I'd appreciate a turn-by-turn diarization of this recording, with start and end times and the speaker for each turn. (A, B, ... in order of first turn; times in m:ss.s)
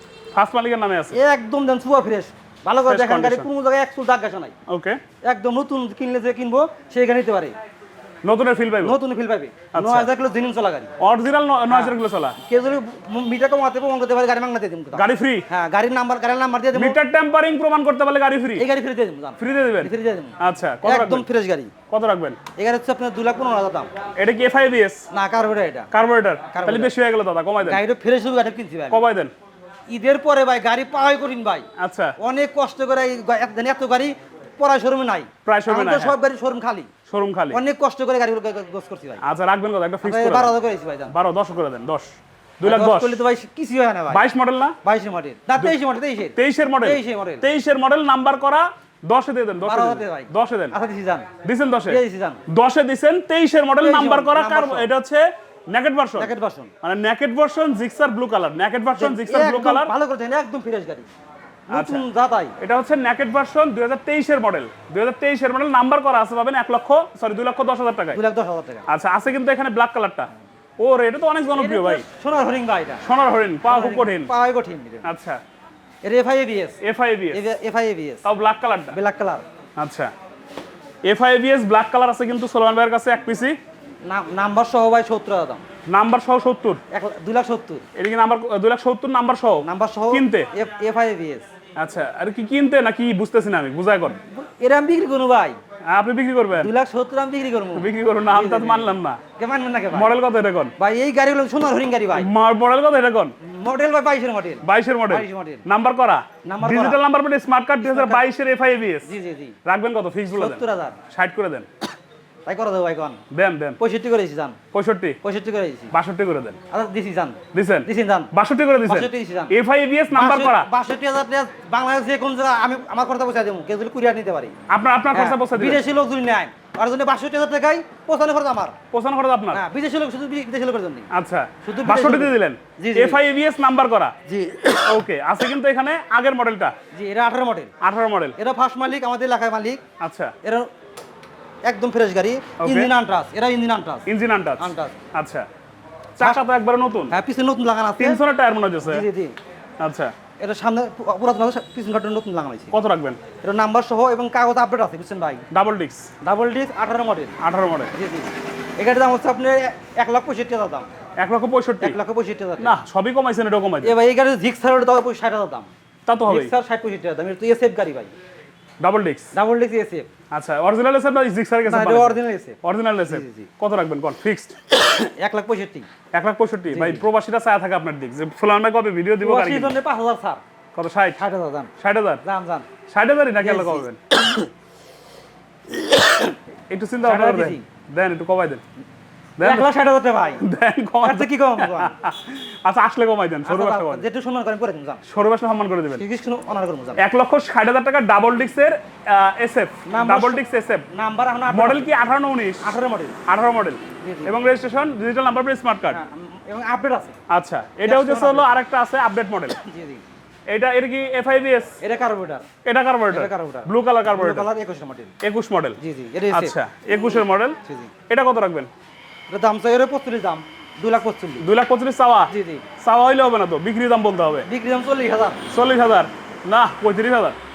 0:00.3-0:01.2 A
0:01.1-0:04.6 B
0:02.9-0:03.5 A
0:04.7-0:05.0 A
0:05.2-0:07.6 B
0:08.2-0:09.0 A
0:08.8-0:10.9 B
0:09.7-0:10.1 A
0:11.0-0:12.4 A
0:11.7-0:17.0 B
0:14.9-0:15.5 A
0:16.8-0:18.7 A
0:18.6-0:21.7 B
0:19.4-0:21.3 A
0:21.9-0:22.4 A
0:22.6-0:23.9 B
0:24.2-0:25.0 A
0:25.1-0:25.9 B
0:25.9-0:27.8 A
0:26.5-0:26.9 B
0:27.6-0:29.0 B
0:28.9-0:29.3 A
0:29.9-0:31.7 B
0:31.8-0:32.2 A
0:32.2-0:36.9 B
0:35.5-0:36.2 A
0:37.1-0:37.6 A
0:37.5-0:39.2 B
0:39.2-0:40.6 A
0:40.0-0:41.1 B
0:41.1-0:43.2 A
0:42.6-0:44.2 B
0:44.1-0:44.8 A
0:44.8-0:47.5 B
0:46.4-0:50.8 A
0:49.6-0:51.3 B
0:51.4-0:59.9 A
0:51.9-0:52.4 B
0:53.8-0:54.9 B
0:56.2-0:56.7 B
0:59.0-1:01.1 B
1:01.7-1:02.6 B
1:01.7-1:02.1 A
1:02.6-1:08.2 A
1:08.1-1:08.9 B
1:08.9-1:12.0 A
1:11.5-1:13.0 B
1:13.0-1:14.3 A
1:13.7-1:15.1 B
1:15.0-1:15.4 A
1:16.0-1:16.8 B
1:16.8-1:17.4 A
1:17.3-1:18.2 B
1:18.2-1:19.0 A
1:18.9-1:19.4 B
1:19.8-1:20.1 A
1:21.0-1:23.6 A
1:24.1-1:25.6 B
1:25.9-1:26.8 A
1:26.9-1:27.9 B
1:28.0-1:30.5 A
1:29.6-1:31.5 B
1:31.8-1:34.2 A
1:34.3-1:35.6 B
1:35.9-1:36.7 A
1:36.6-1:40.1 B
1:37.8-1:39.2 A
1:39.9-1:40.7 A
1:40.8-1:42.3 B
1:42.2-1:43.4 A
1:43.4-1:45.6 B
1:44.6-1:49.1 A
1:46.4-1:47.0 B
1:47.8-1:48.2 B
1:49.0-1:49.6 B
1:49.6-1:51.7 A
1:50.3-1:51.0 B
1:52.5-1:53.2 B
1:53.3-1:53.8 A
1:53.8-1:54.6 B
1:54.7-1:55.2 A
1:55.2-1:56.0 B
1:55.9-1:56.6 A
1:56.7-1:58.3 B
1:57.5-2:00.7 A
1:58.9-1:59.6 B
2:00.1-2:04.6 B
2:04.7-2:05.8 A
2:05.1-2:08.8 B
2:08.9-2:09.6 A
2:09.5-2:11.1 B
2:11.1-2:14.2 A
2:11.6-2:13.2 B
2:14.3-2:14.9 B
2:14.8-2:16.8 A
2:16.9-2:17.7 B
2:17.8-2:18.4 A
2:18.4-2:19.8 B
2:20.0-2:20.3 A
2:20.4-2:20.7 B
2:21.7-2:24.0 B
2:22.6-2:22.9 A
2:24.1-2:25.5 A
2:24.6-2:25.0 B
2:26.2-2:27.1 A
2:27.1-2:28.2 B
2:28.0-2:29.1 A
2:28.9-2:29.4 B
2:29.8-2:30.1 A
2:30.4-2:32.7 B
2:32.7-2:33.2 A
2:33.4-2:35.4 B
2:35.5-2:36.1 A
2:36.2-2:37.4 B
2:37.4-2:37.9 A
2:37.9-2:40.9 B
2:41.2-2:42.0 A
2:41.8-2:42.8 B
2:42.6-2:44.0 A
2:43.8-2:45.7 B
2:46.1-2:46.5 A
2:46.3-2:48.1 B
2:48.8-2:49.3 A
2:49.3-2:50.1 B
2:50.3-2:54.6 A
2:51.6-2:53.5 B
2:54.9-2:55.9 B
2:56.1-2:59.8 A
2:56.7-2:57.0 B
2:59.2-3:00.4 B
3:00.8-3:01.2 A
3:01.2-3:01.7 B
3:01.8-3:02.2 A
3:02.2-3:02.7 B
3:02.9-3:04.0 A
3:03.4-3:03.9 B
3:05.8-3:06.3 B
3:06.7-3:08.6 A
3:07.0-3:07.6 B
3:09.4-3:09.7 A
3:09.4-3:10.4 B
3:10.4-3:14.0 A
3:11.0-3:12.0 B
3:13.4-3:15.0 B
3:15.1-3:16.0 A
3:16.0-3:17.0 B
3:17.0-3:20.8 A
3:19.9-3:21.9 B
3:21.5-3:22.7 A
3:22.6-3:23.2 B
3:23.3-3:26.0 A
3:24.0-3:24.4 B
3:25.9-3:27.2 B
3:27.3-3:29.6 A
3:27.8-3:28.5 B
3:29.6-3:30.0 B
3:30.5-3:31.8 A
3:31.8-3:32.5 B
3:32.6-3:34.5 A
3:33.1-3:35.1 B
3:35.2-3:35.8 A
3:35.8-3:37.9 B
3:36.3-3:37.6 A
3:38.1-3:38.7 A
3:39.3-3:41.5 B
3:41.4-3:44.5 A
3:42.3-3:42.7 B
3:44.5-3:45.4 B
3:45.5-3:47.4 A